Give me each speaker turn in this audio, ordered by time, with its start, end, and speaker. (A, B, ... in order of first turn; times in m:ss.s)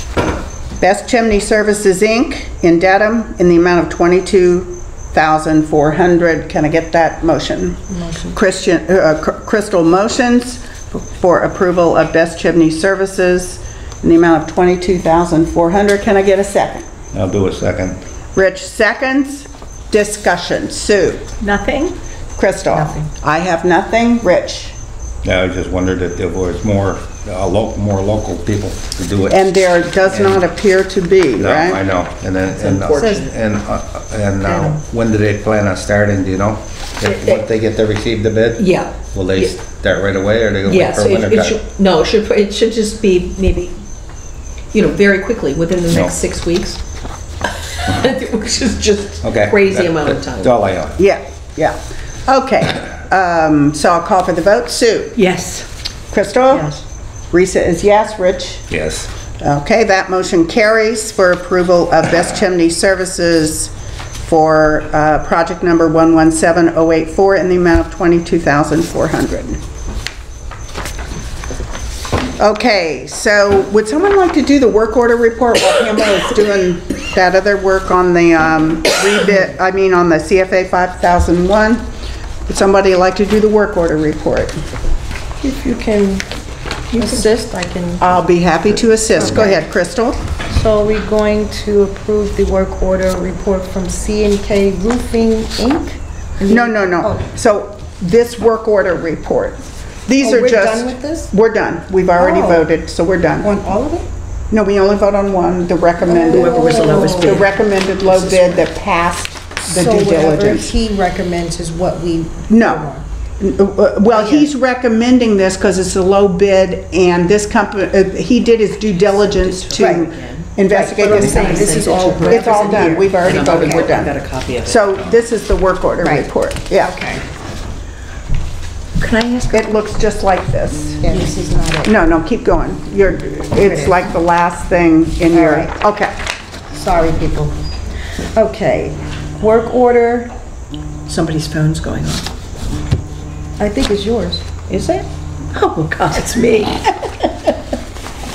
0:00.8-0:07.8 A
0:07.9-0:08.4 B
0:08.3-0:16.9 A
0:17.1-0:18.0 C
0:18.4-0:21.3 A
0:21.4-0:21.9 D
0:22.4-0:24.8 A
0:22.7-0:23.1 B
0:25.2-0:29.5 C
0:29.3-0:31.8 A
0:30.0-0:30.4 C
0:31.4-0:41.6 C
0:32.5-0:33.3 E
0:32.9-0:33.3 B
0:34.4-0:34.8 B
0:37.0-0:37.4 E
0:38.6-0:39.5 E
0:40.6-0:43.8 E
0:44.7-0:46.8 E
0:47.4-0:50.5 E
0:49.2-0:51.0 C
0:51.0-0:55.2 A
0:55.2-0:55.7 D
0:56.1-0:56.7 A
0:57.3-0:58.7 A
0:58.7-0:59.1 C
0:59.4-1:09.6 A
1:12.4-1:21.9 A
1:22.5-1:24.6 A
1:25.4-1:26.2 B
1:26.9-1:28.0 B
1:28.0-1:30.2 A
1:29.2-1:29.6 B
1:30.5-1:37.2 B
1:36.5-1:43.5 A
1:40.2-1:41.3 B
1:42.2-1:42.6 B
1:43.4-1:44.1 B
1:44.5-1:50.7 A
1:46.0-1:47.4 B
1:46.2-1:47.5 E
1:49.6-1:53.0 B
1:52.5-1:52.8 A
1:53.4-2:04.1 A
1:54.1-1:54.5 B
1:59.0-2:00.5 E
1:59.7-2:00.1 B
2:00.6-2:03.9 B
2:01.0-2:04.8 E
2:04.6-2:07.0 A
2:06.0-2:06.3 B
2:06.8-2:07.2 B
2:09.0-2:09.7 D
2:09.5-2:11.3 A
2:11.0-2:11.9 B
2:11.8-2:16.2 A
2:13.6-2:14.1 B
2:15.3-2:15.7 B
2:16.7-2:17.5 B
2:18.3-2:20.3 B
2:21.1-2:22.3 D
2:23.6-2:24.4 B
2:24.7-2:27.5 D